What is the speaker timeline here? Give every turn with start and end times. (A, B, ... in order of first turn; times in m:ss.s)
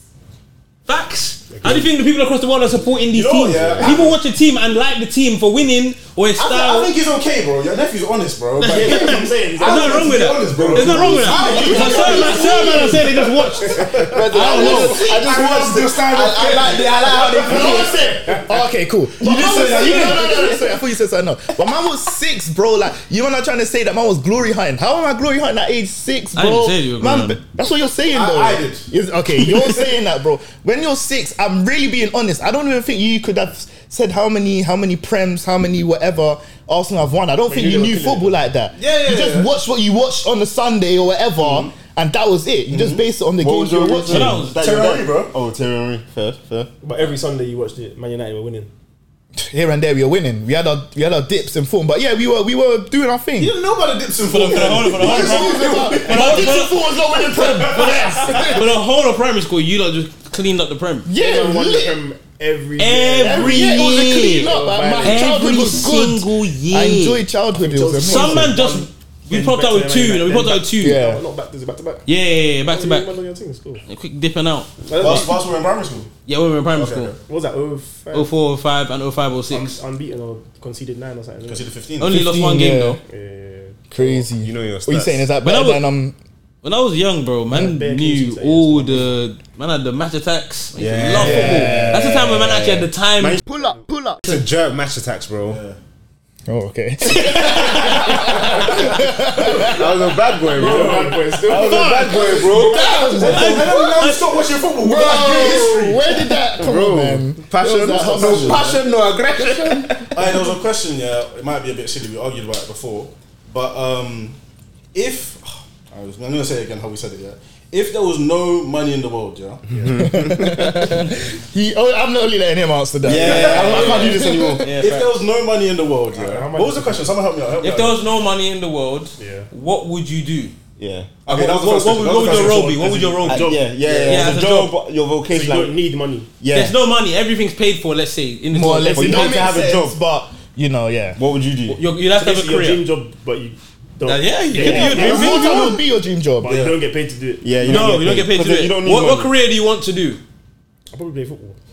0:00.8-0:06.9 A
0:01.5-0:01.9 B
0:03.1-0:04.2 C
0:06.4-0:17.9 C
0:08.6-0:15.0 A
0:08.6-0:12.5 B
0:11.2-0:13.1 D
0:13.9-0:18.0 E
0:14.1-0:15.5 D
0:17.4-0:44.4 D
0:19.2-0:20.6 C
0:26.4-0:27.4 A
0:28.1-0:28.9 C
0:37.5-0:38.4 B
0:38.7-0:39.5 C
0:42.7-0:43.0 C
0:43.4-0:46.7 E
0:44.1-0:44.6 A
0:44.6-0:45.3 C
0:46.8-0:48.7 B
0:49.4-0:53.5 D
0:53.4-0:56.6 C
0:54.2-0:56.9 A
0:55.0-0:58.7 D
0:57.5-1:01.1 A
0:57.6-0:58.6 C
1:01.0-1:02.0 D
1:01.1-1:03.8 B
1:02.8-1:07.0 A
1:03.2-1:08.6 D
1:04.4-1:05.3 B
1:07.6-1:12.1 B
1:08.0-1:11.0 A
1:10.8-1:11.2 D
1:12.1-1:13.1 A
1:12.6-1:13.8 B
1:13.8-1:15.2 A
1:14.8-1:15.3 B
1:15.0-1:16.1 C
1:16.2-1:17.1 A
1:16.7-1:17.2 C
1:17.3-1:18.3 B
1:18.1-1:19.8 A
1:19.5-1:21.7 B
1:21.4-1:22.2 C
1:22.0-1:23.0 A
1:22.1-1:23.0 D
1:23.1-1:24.3 B
1:23.9-1:26.2 D
1:24.4-1:25.3 E
1:25.4-1:25.8 A
1:26.6-1:33.4 A
1:27.5-1:29.1 B
1:30.8-1:33.4 E
1:31.1-1:32.3 D
1:33.4-1:34.2 D
1:34.2-1:35.6 E
1:35.4-1:35.8 C
1:36.5-1:40.0 D
1:37.1-1:38.3 A
1:37.8-1:38.5 C
1:39.6-1:43.6 E
1:40.5-1:42.3 B
1:40.6-1:41.1 C
1:41.4-1:44.5 A
1:42.5-1:43.8 D
1:43.0-1:46.2 C
1:44.8-1:48.8 D
1:46.5-1:50.3 E
1:47.9-1:49.1 C
1:49.4-1:50.0 D
1:50.1-1:54.4 C
1:54.9-1:59.6 C
1:59.7-2:00.1 B
1:59.7-2:01.0 E
2:00.0-2:04.7 D
2:03.0-2:04.7 E
2:03.1-2:08.0 C
2:03.4-2:05.1 A
2:06.1-2:07.2 B
2:07.6-2:10.5 A
2:09.2-2:09.5 B
2:10.8-2:11.2 E
2:11.2-2:12.9 C
2:11.3-2:13.5 A
2:12.2-2:14.4 B
2:13.2-2:15.8 E
2:14.0-2:14.7 A
2:15.3-2:16.3 B
2:16.4-2:16.8 E
2:16.5-2:19.5 A
2:18.5-2:21.2 D
2:18.9-2:20.0 E
2:21.2-2:21.8 E
2:21.7-2:22.8 A
2:22.1-2:25.6 B
2:24.0-2:25.8 A
2:24.6-2:26.5 D
2:26.4-2:28.0 B
2:26.4-2:26.8 C
2:27.4-2:29.3 E
2:27.6-2:30.2 A
2:30.9-2:31.6 B